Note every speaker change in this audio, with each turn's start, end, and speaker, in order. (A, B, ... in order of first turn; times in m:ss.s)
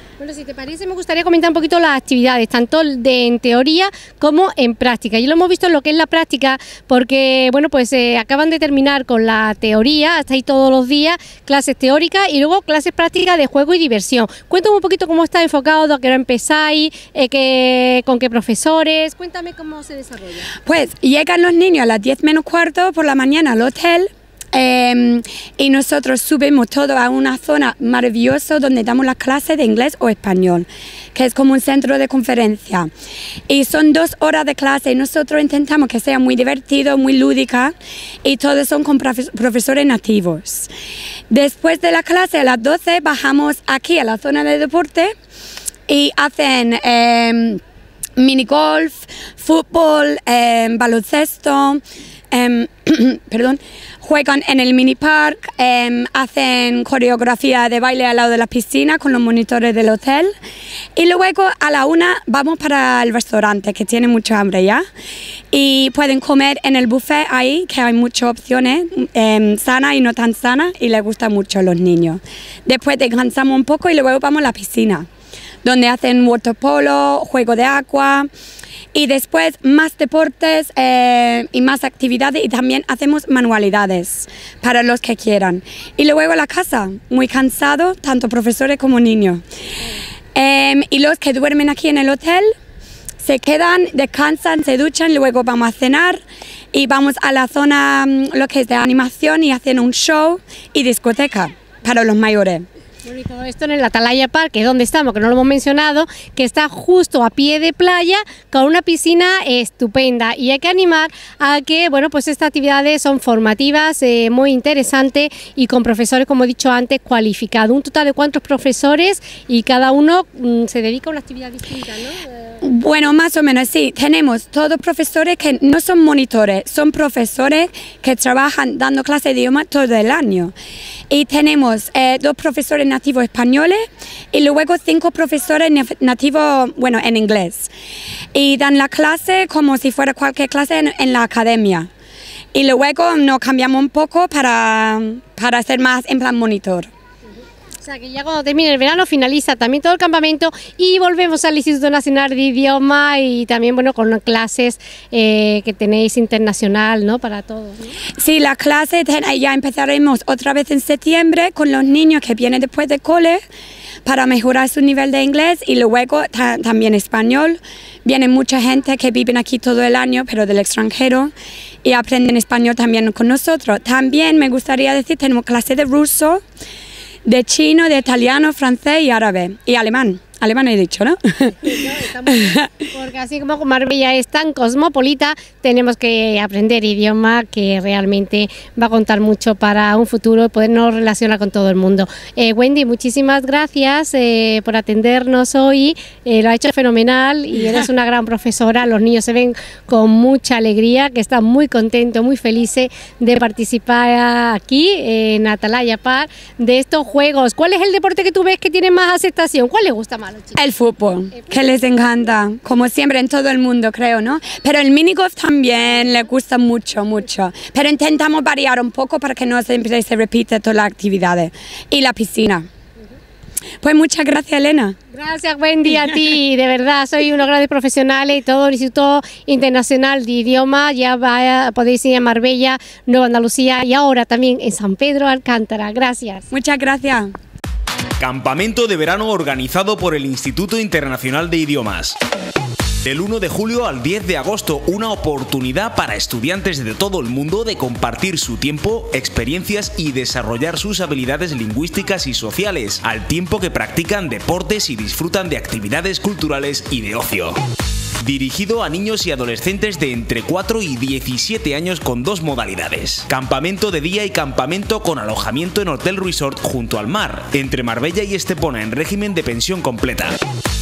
0:00.2-0:20.5 A
0:20.6-0:32.9 B
0:33.5-0:40.7 B
0:41.3-0:45.1 B
0:45.9-0:47.6 B
0:48.2-1:00.3 B
1:01.0-1:04.9 B
1:05.5-1:15.1 B
1:15.6-1:18.3 B
1:18.9-1:29.4 B
1:30.4-1:32.5 B
1:33.2-1:36.2 B
1:36.7-1:42.6 B
1:43.0-2:02.3 A
2:02.6-2:10.5 B
2:11.1-2:17.7 B
2:18.3-2:21.9 B
2:22.5-2:26.9 B
2:27.8-2:37.9 A
2:38.2-2:43.4 B
2:44.0-2:51.3 B
2:51.8-2:56.4 B
2:57.2-3:02.6 B
3:01.7-3:30.6 A
3:30.6-3:42.7 B
3:43.8-3:45.0 B
3:45.1-3:56.5 A
3:56.5-3:57.3 B
3:58.2-4:02.2 C
4:03.0-4:17.6 C
4:18.2-4:30.4 C